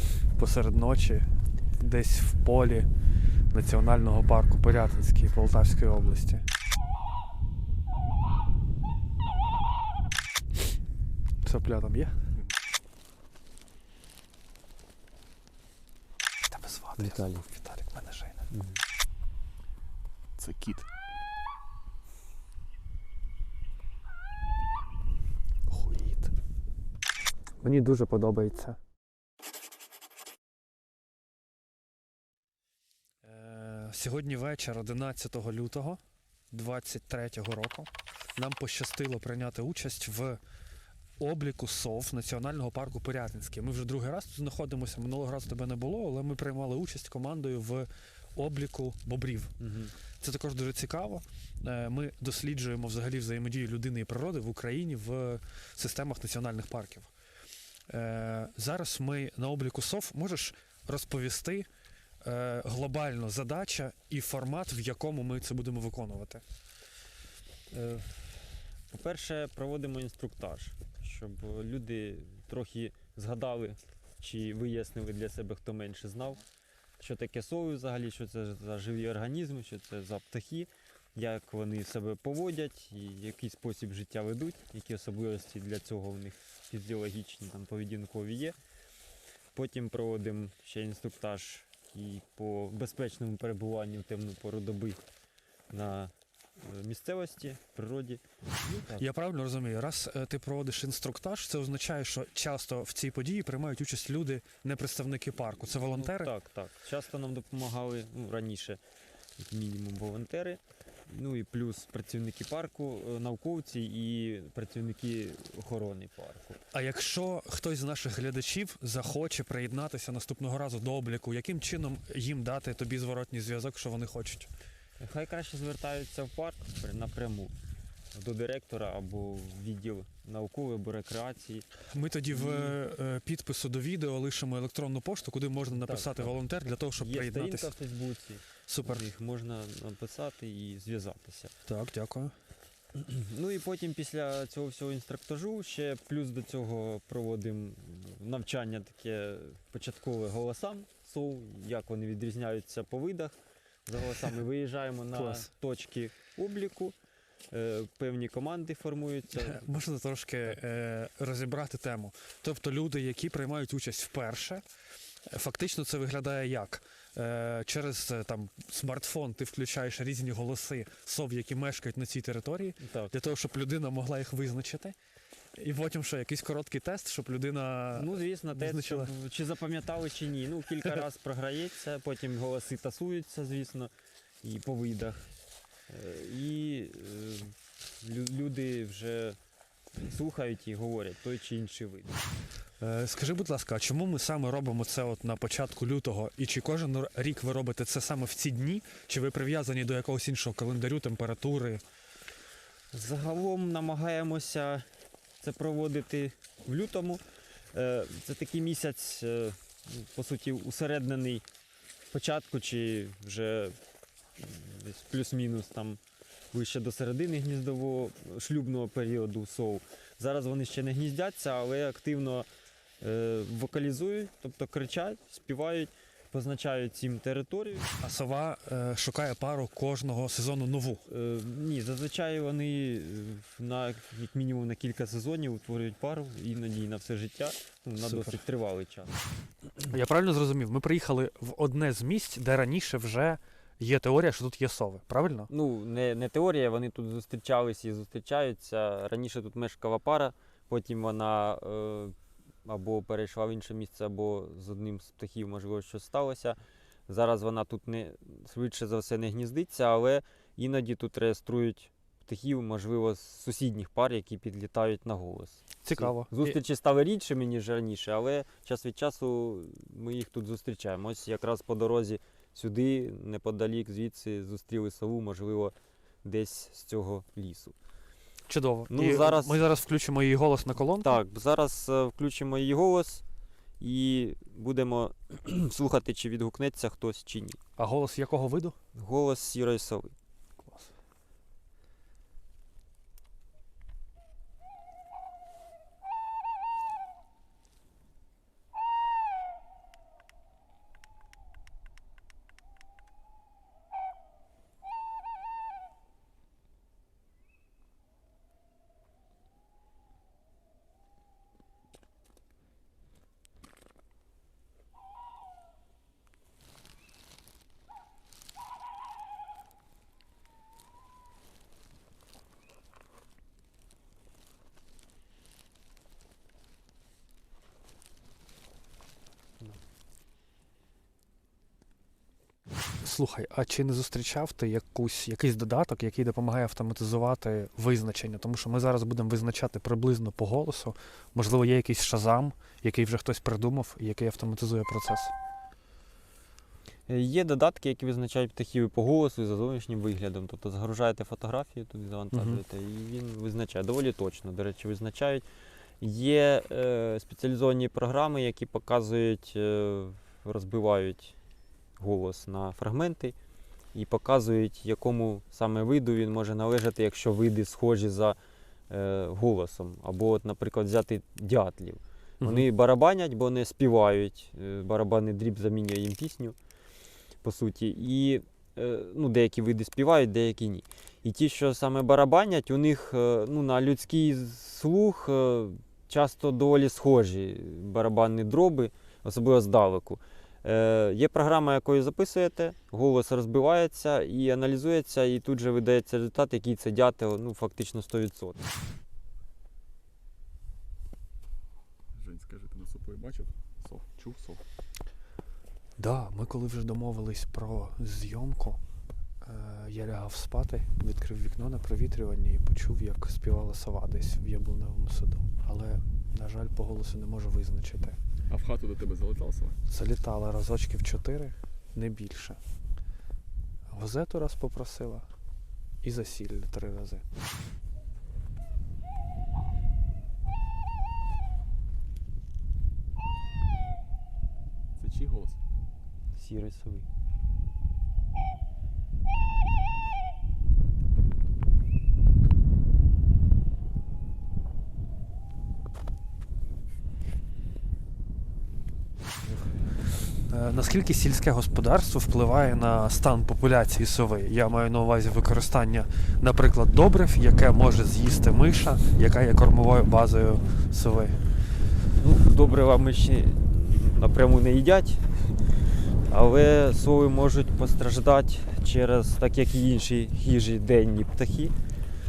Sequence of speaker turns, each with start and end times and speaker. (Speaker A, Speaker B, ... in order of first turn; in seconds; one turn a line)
Speaker A: 0.2-2.9
Speaker A: 3.5-6.5
Speaker A: 11.4-12.3
Speaker A: 16.5-18.5
Speaker B: 17.0-17.5
Speaker B: 18.5-18.8
Speaker C: 20.4-20.7
Speaker A: 25.7-26.3
Speaker A: 27.6-28.8
Speaker A: 33.2-36.0
Speaker A: 36.5-40.4
Speaker A: 41.2-49.5
Speaker B: 49.6-49.9
Speaker A: 50.2-57.1
Speaker A: 57.9-61.7
Speaker A: 62.2-66.4
Speaker B: 67.7-76.4
Speaker B: 77.0-88.6
Speaker B: 89.5-95.0
Speaker B: 95.7-99.0
Speaker A: 98.9-106.3
Speaker B: 105.7-108.8
Speaker B: 109.4-116.6
Speaker A: 116.7-124.5
Speaker B: 125.0-127.5
Speaker B: 128.1-131.7
Speaker A: 131.9-137.7
Speaker B: 132.3-132.8
Speaker B: 135.7-136.3
Speaker B: 137.0-141.5
Speaker A: 138.7-139.1
Speaker A: 141.7-142.3
Speaker B: 142.9-156.9
Speaker A: 155.1-155.5
Speaker B: 157.5-159.7
Speaker A: 159.3-164.6
Speaker A: 165.3-174.9
Speaker B: 172.8-173.1
Speaker A: 175.6-179.1
Speaker B: 177.9-183.9
Speaker B: 184.4-185.3
Speaker B: 185.9-189.4
Speaker B: 190.0-192.2
Speaker A: 192.8-201.8
Speaker B: 202.9-204.9
Speaker B: 205.4-211.4
Speaker B: 212.1-213.8
Speaker B: 214.4-216.0
Speaker B: 216.5-222.5
Speaker B: 223.0-227.9
Speaker A: 228.0-231.1
Speaker B: 231.1-239.2
Speaker A: 238.0-238.4
Speaker A: 239.9-245.5
Speaker B: 245.5-277.7
Speaker A: 265.8-266.6
Speaker A: 278.5-281.2
Speaker B: 278.9-279.6
Speaker B: 281.0-283.2
Speaker B: 283.8-287.6
Speaker A: 287.8-288.7
Speaker B: 288.9-290.1
Speaker A: 290.6-290.9
Speaker A: 333.0-345.3
Speaker B: 347.1-355.4
Speaker A: 352.3-352.6
Speaker B: 356.0-361.4
Speaker B: 362.0-363.3
Speaker B: 363.9-368.4
Speaker B: 368.9-376.6
Speaker B: 377.4-398.7
Speaker C: 402.1-404.6
Speaker A: 406.0-408.8
Speaker A: 409.4-418.2
Speaker C: 418.5-419.8
Speaker A: 419.9-422.6
Speaker A: 423.9-425.3
Speaker A: 426.0-427.2
Speaker C: 435.0-435.6
Speaker B: 436.3-437.1
Speaker A: 449.4-449.7
Speaker A: 450.3-461.4
Speaker B: 462.1-465.5
Speaker B: 466.3-471.7